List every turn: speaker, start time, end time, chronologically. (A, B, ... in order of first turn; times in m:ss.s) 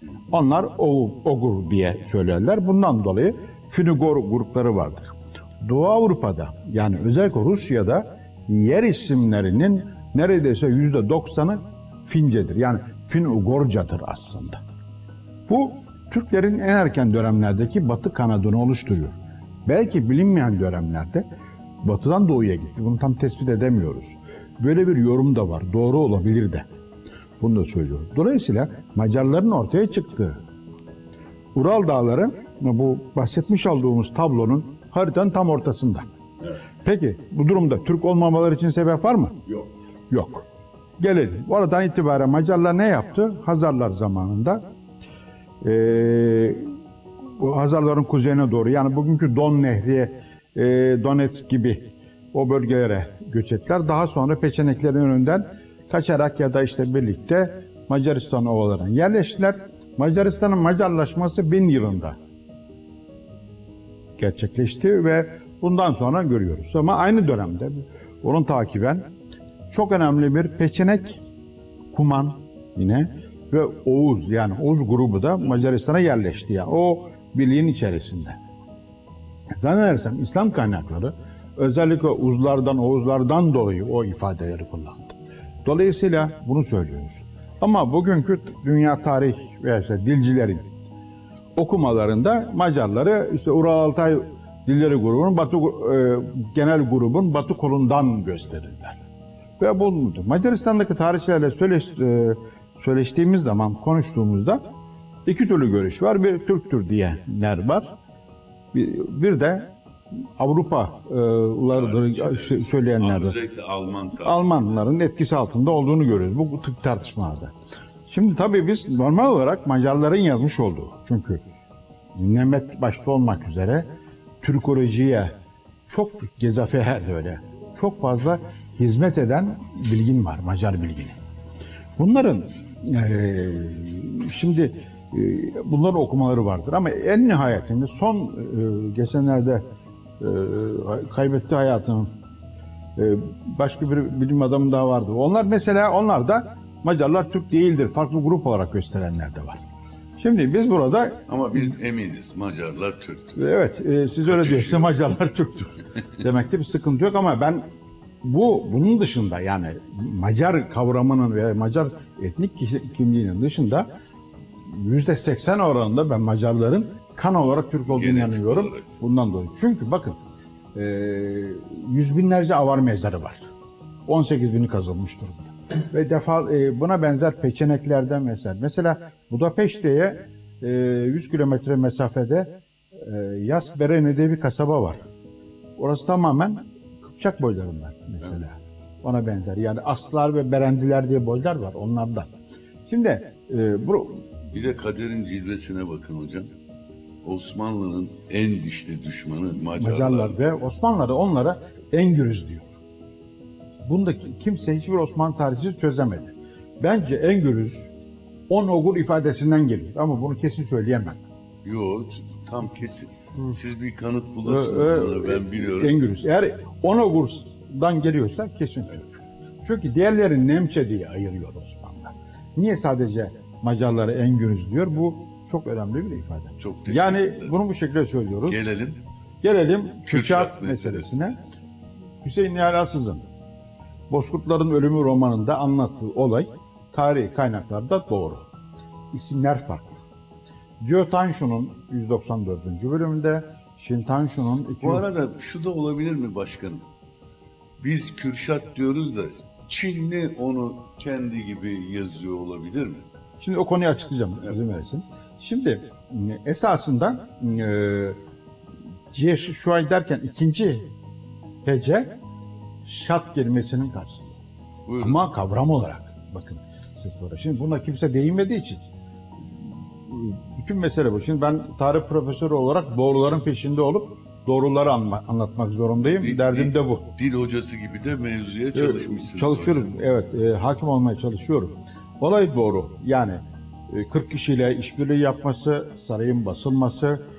0:00.3-0:14.6 A
0:15.5-0:19.2 A
0:19.7-0:21.2 A
0:21.8-0:26.6 A
0:27.4-0:30.4 A
0:31.6-0:36.1 A
0:36.8-0:39.4 A
0:40.1-0:40.5 A
0:41.0-0:44.6 A
0:45.6-0:46.7 A
0:47.4-1:02.2 A
1:04.2-1:09.1 A
1:09.7-1:11.2 A
1:11.9-1:18.4 A
1:19.6-1:30.7 A
1:31.6-1:39.0 A
1:39.6-1:44.6 A
1:45.3-1:47.9 A
1:48.7-1:49.7 A
1:50.4-1:53.4 A
1:51.7-1:54.7 B
1:54.2-1:57.5 A
1:58.1-2:01.4 A
2:02.2-2:03.9 A
2:04.4-2:05.3 A
2:05.9-2:11.2 A
2:12.0-2:19.6 A
2:20.2-2:22.1 A
2:23.0-2:29.6 A
2:30.2-2:31.2 A
2:31.3-2:33.4 B
2:33.4-2:37.6 A
2:34.3-2:34.9 B
2:38.2-2:43.9 A
2:44.6-2:50.2 A
2:47.9-2:48.9 B
2:50.8-2:53.5 A
2:54.1-3:05.0 A
3:05.8-3:12.3 A
3:12.9-3:14.3 A
3:14.5-3:16.5 B
3:17.2-3:20.4 B
3:19.8-3:22.8 A
3:23.8-3:27.9 A
3:28.5-3:31.2 A
3:31.6-3:36.0 B
3:34.4-3:39.1 A
3:39.6-3:48.6 A
3:46.6-3:47.5 B
3:48.5-3:49.0 B
3:49.4-3:51.4 A
3:50.1-3:51.1 B
3:52.2-3:53.3 A
3:54.1-3:58.5 A
3:59.1-4:00.0 A
4:00.8-4:05.0 A
4:04.8-4:06.8 B
4:07.8-4:13.1 B
4:13.4-4:18.2 A
4:19.1-4:20.9 A
4:21.6-4:22.1 A
4:22.8-4:24.4 A
4:24.9-4:25.2 B
4:25.0-4:28.8 A
4:29.6-4:37.0 A
4:36.0-4:39.9 B
4:38.7-4:47.2 A